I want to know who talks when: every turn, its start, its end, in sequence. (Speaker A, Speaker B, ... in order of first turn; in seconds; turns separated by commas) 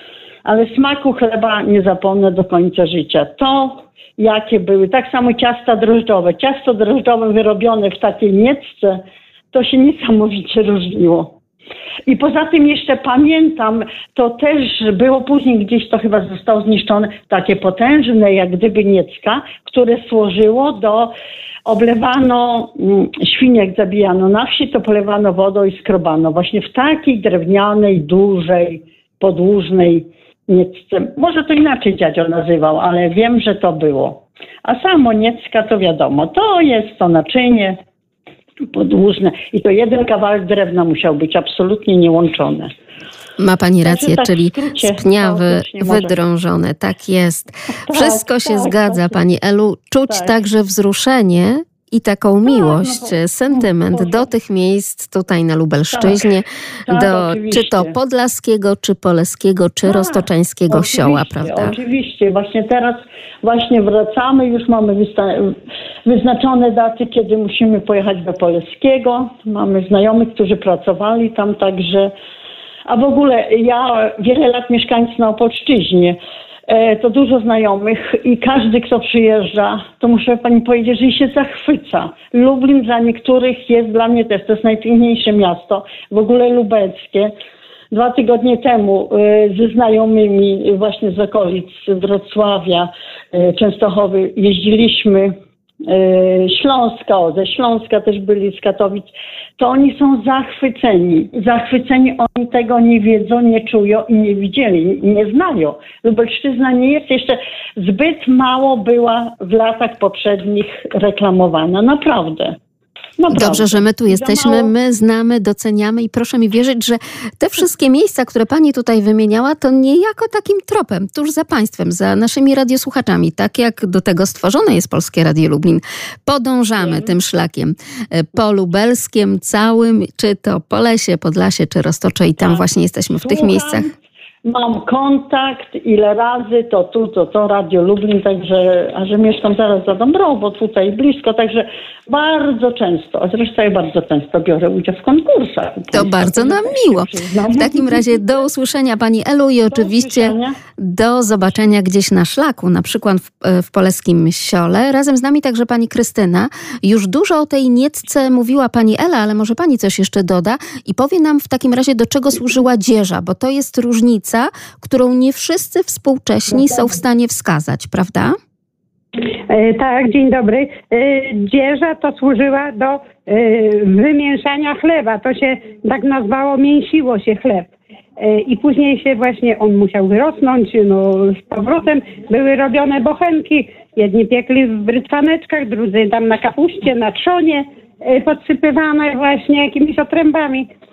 Speaker A: 0.4-11.3, Speaker A: 12.1-21.1, Speaker A: 21.6-37.8, Speaker A: 38.6-42.7, Speaker B: 43.4-61.8, Speaker A: 43.8-46.1, Speaker A: 47.9-49.2, Speaker A: 50.0-50.3, Speaker A: 52.5-54.3, Speaker A: 55.9-56.3, Speaker A: 56.9-57.9, Speaker A: 59.8-72.1, Speaker A: 72.9-87.3, Speaker A: 87.9-112.6, Speaker A: 113.2-114.7, Speaker B: 113.3-133.9, Speaker A: 126.8-127.1, Speaker A: 132.4-132.6, Speaker A: 133.2-133.9, Speaker A: 134.4-148.1, Speaker B: 145.9-168.4, Speaker A: 149.7-150.6, Speaker C: 169.5-190.7